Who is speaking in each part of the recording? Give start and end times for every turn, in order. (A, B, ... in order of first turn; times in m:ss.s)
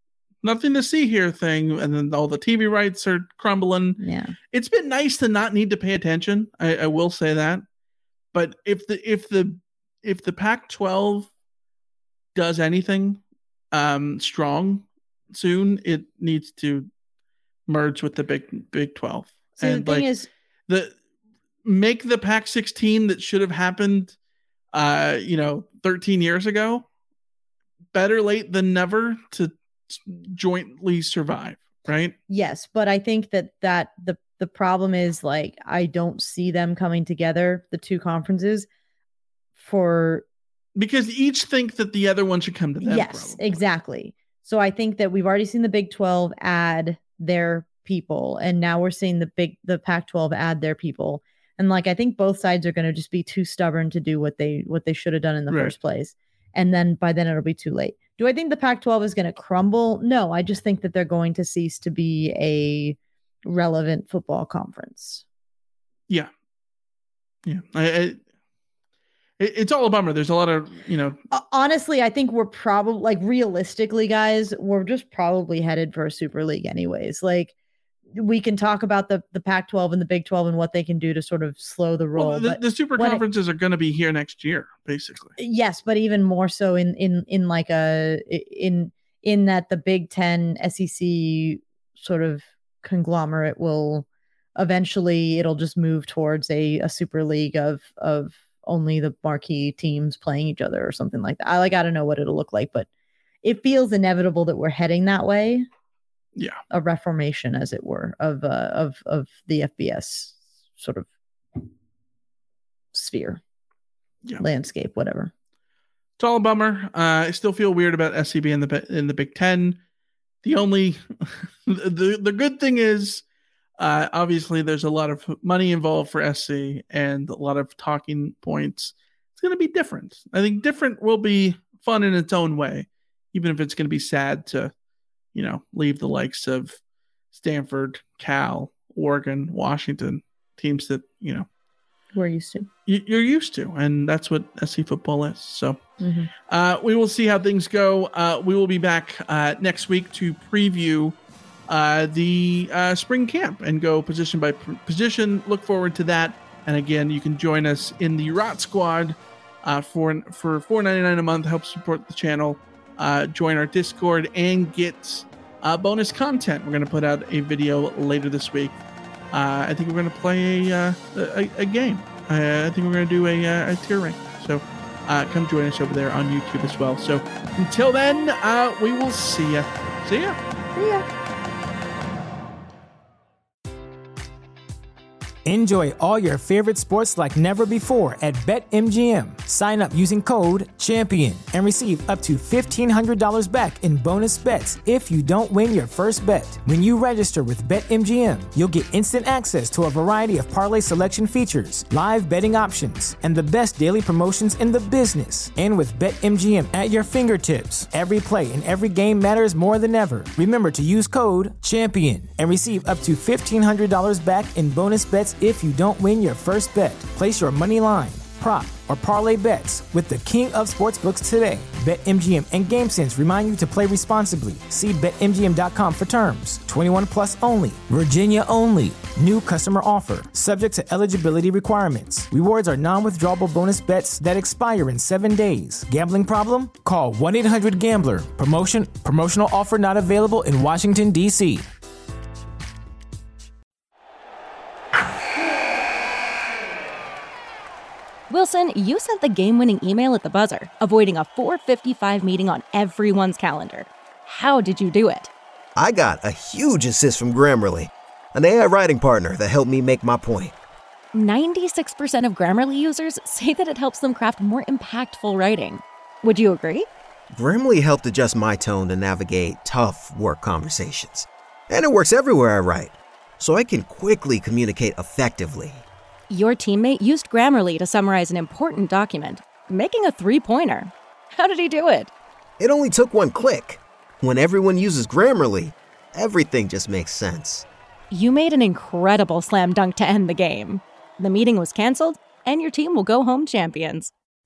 0:00.4-0:04.0 A
0:04.0-0:04.4 B
0:04.5-0:07.6 A
0:08.3-0:11.3 A
0:12.3-0:16.9 A
0:17.7-0:20.1 A
0:19.6-0:20.3 B
0:20.7-0:20.9 A
0:21.6-0:24.2 A
0:24.7-0:26.9 A
0:27.9-0:32.2 A
0:32.3-0:38.7 B
0:39.6-0:40.2 B
0:40.8-0:43.6 A
0:42.8-1:05.2 B
0:55.5-0:55.7 A
1:07.4-1:08.2 A
1:09.4-1:11.2 A
1:11.3-1:17.5 B
1:18.1-1:23.2 B
1:22.1-1:25.3 A
1:25.4-1:42.9 B
1:43.4-1:45.6 B
1:46.7-1:51.7 B
1:52.9-1:53.4 B
1:54.4-1:55.3 B
1:56.2-1:59.8 A
2:00.4-2:03.2 A
2:03.8-2:14.7 A
2:15.3-2:16.8 A
2:17.3-2:21.5 A
2:22.1-2:22.7 B
2:22.8-2:25.8 A
2:26.0-2:26.3 B
2:26.5-2:31.2 A
2:31.7-2:48.8 A
2:49.3-3:00.4 A
3:00.7-3:01.0 B
3:05.4-4:01.7 C
4:08.3-4:15.3 D
4:15.8-4:20.6 E
4:21.1-4:26.9 D
4:27.3-4:35.8 E
4:36.3-4:42.1 D
4:42.6-4:47.6 E
4:48.1-4:54.1 D